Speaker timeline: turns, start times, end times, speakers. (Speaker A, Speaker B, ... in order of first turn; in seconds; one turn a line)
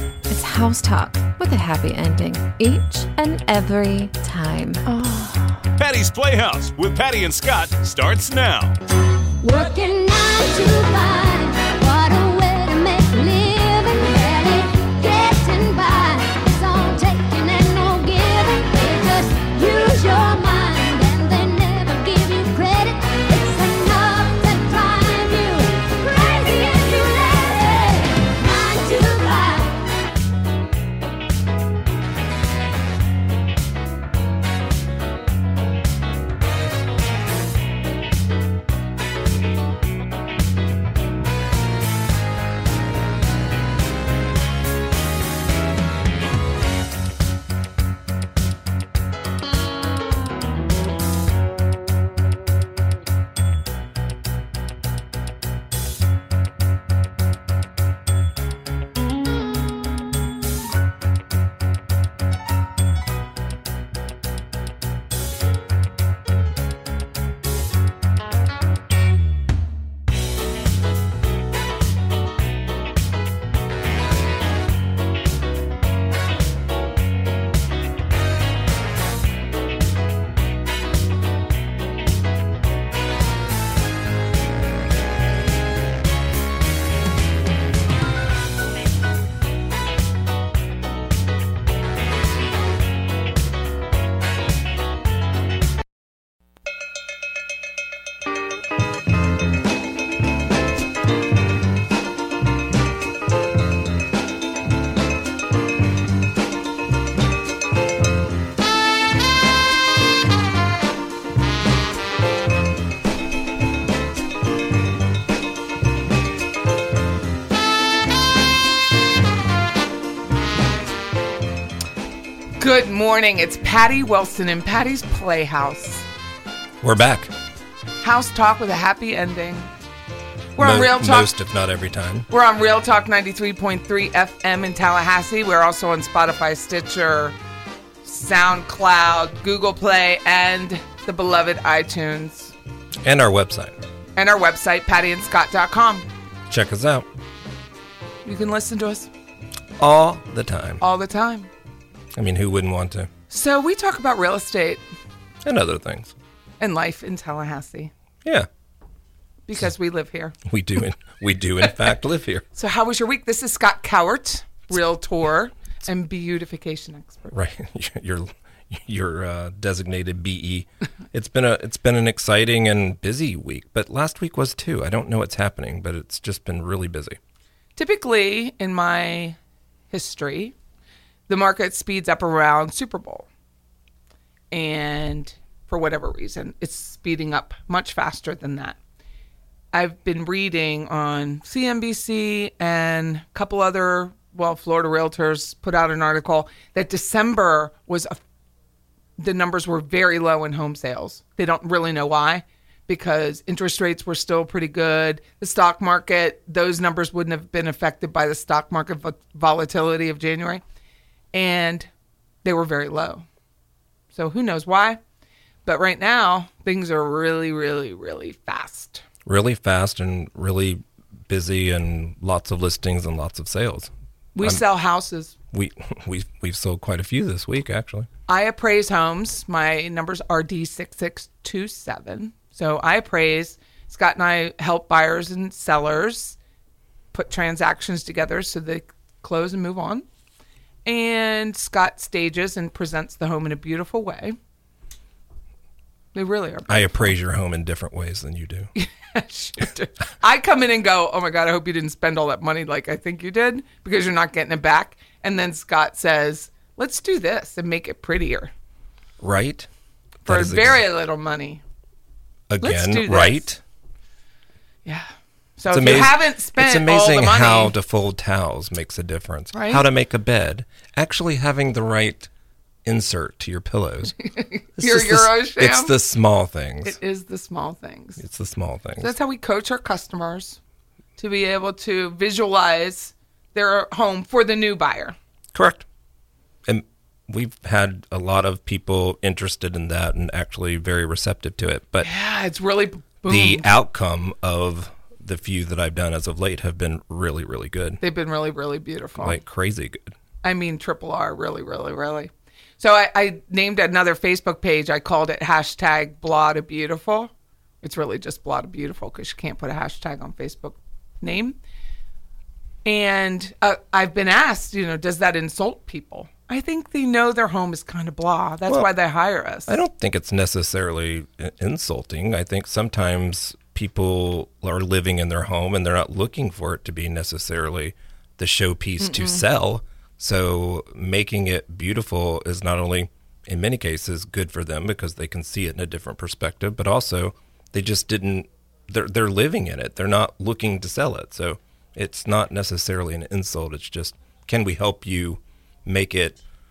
Speaker A: 0.3-5.6
Speaker B: 5.8-8.7
Speaker C: 9.4-29.9
Speaker D: 122.6-126.0
Speaker E: 126.8-127.3
Speaker D: 128.0-129.7
Speaker D: 130.6-131.3
Speaker E: 130.6-132.3
Speaker D: 132.3-137.3
Speaker D: 138.0-142.5
Speaker E: 143.0-143.8
Speaker D: 144.2-146.1
Speaker E: 146.5-147.1
Speaker D: 148.2-149.1
Speaker E: 149.8-150.8
Speaker D: 150.8-151.5
Speaker E: 152.2-153.1
Speaker D: 153.3-154.8
Speaker E: 155.4-156.1
Speaker D: 156.6-157.9
Speaker D: 159.4-160.3
Speaker E: 160.4-162.4
Speaker D: 162.5-167.3
Speaker E: 167.3-177.2
Speaker D: 177.8-179.4
Speaker D: 179.9-180.5
Speaker D: 181.3-183.3
Speaker D: 184.5-188.8
Speaker D: 189.7-198.2
Speaker D: 199.2-210.6
Speaker D: 211.3-211.9
Speaker D: 212.4-213.2
Speaker D: 214.1-215.0
Speaker D: 215.6-219.0
Speaker E: 219.2-224.6
Speaker D: 224.3-225.3
Speaker E: 225.5-228.1
Speaker D: 228.3-236.4
Speaker D: 237.1-240.0
Speaker D: 240.8-244.3
Speaker D: 246.1-247.1
Speaker E: 246.7-248.7
Speaker D: 248.8-258.5
Speaker E: 259.2-259.7
Speaker E: 260.2-260.8
Speaker D: 260.2-261.6
Speaker E: 262.5-263.6
Speaker D: 262.6-263.5
Speaker D: 264.9-267.7
Speaker E: 265.7-272.3
Speaker D: 269.5-269.8
Speaker E: 272.8-274.1
Speaker D: 274.3-275.9
Speaker E: 274.8-277.0
Speaker D: 276.8-278.2
Speaker E: 278.2-279.1
Speaker D: 279.0-280.6
Speaker D: 281.2-285.1
Speaker E: 285.5-285.8
Speaker E: 286.6-292.1
Speaker D: 292.0-293.6
Speaker E: 293.2-298.0
Speaker D: 298.0-299.4
Speaker E: 299.2-300.1
Speaker D: 300.4-307.3
Speaker D: 307.8-311.6
Speaker D: 312.8-319.7
Speaker E: 319.7-346.4
Speaker D: 329.0-329.4